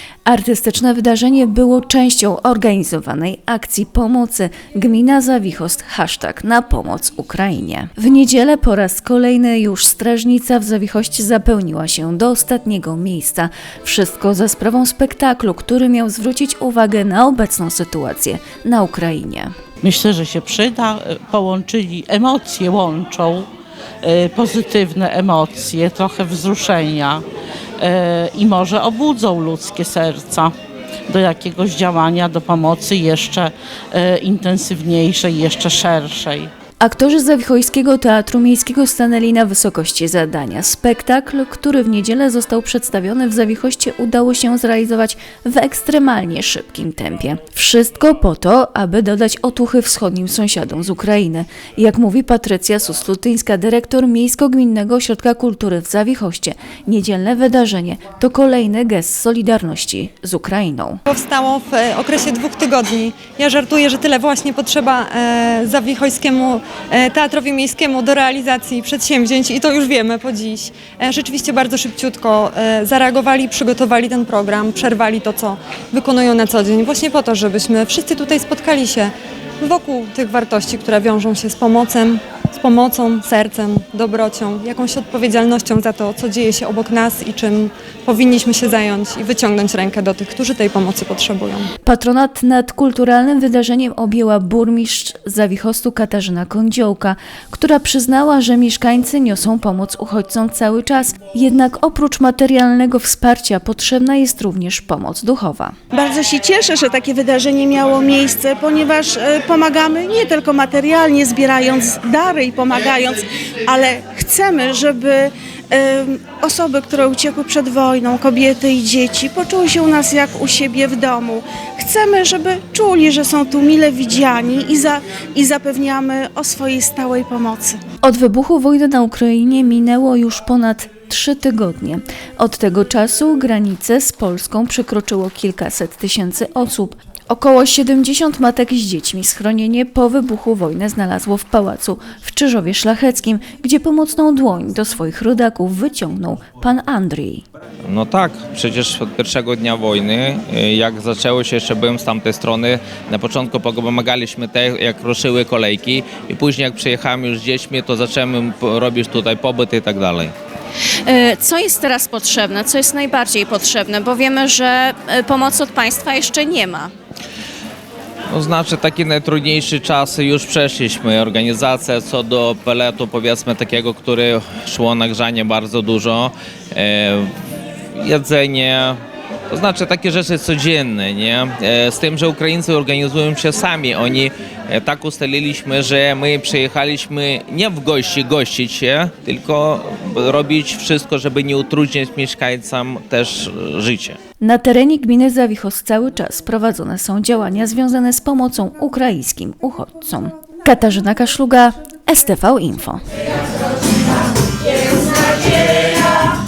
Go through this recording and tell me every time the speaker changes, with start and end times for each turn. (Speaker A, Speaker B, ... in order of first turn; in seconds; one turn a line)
Speaker A: 0.2-19.5
Speaker B: 19.8-23.5
Speaker B: 24.0-27.2
Speaker B: 27.8-30.6
Speaker B: 31.1-36.5
Speaker A: 36.8-61.0
Speaker C: 61.1-66.5
Speaker C: 67.2-79.0
Speaker C: 79.6-91.7
Speaker A: 91.8-105.7
Speaker D: 105.9-127.8
Speaker A: 128.0-147.4
Speaker E: 147.8-160.3
Speaker F: 161.1-166.9
Speaker E: 168.3-177.3
Speaker E: 177.9-179.0
Speaker E: 179.5-194.2
Speaker A: 194.4-203.0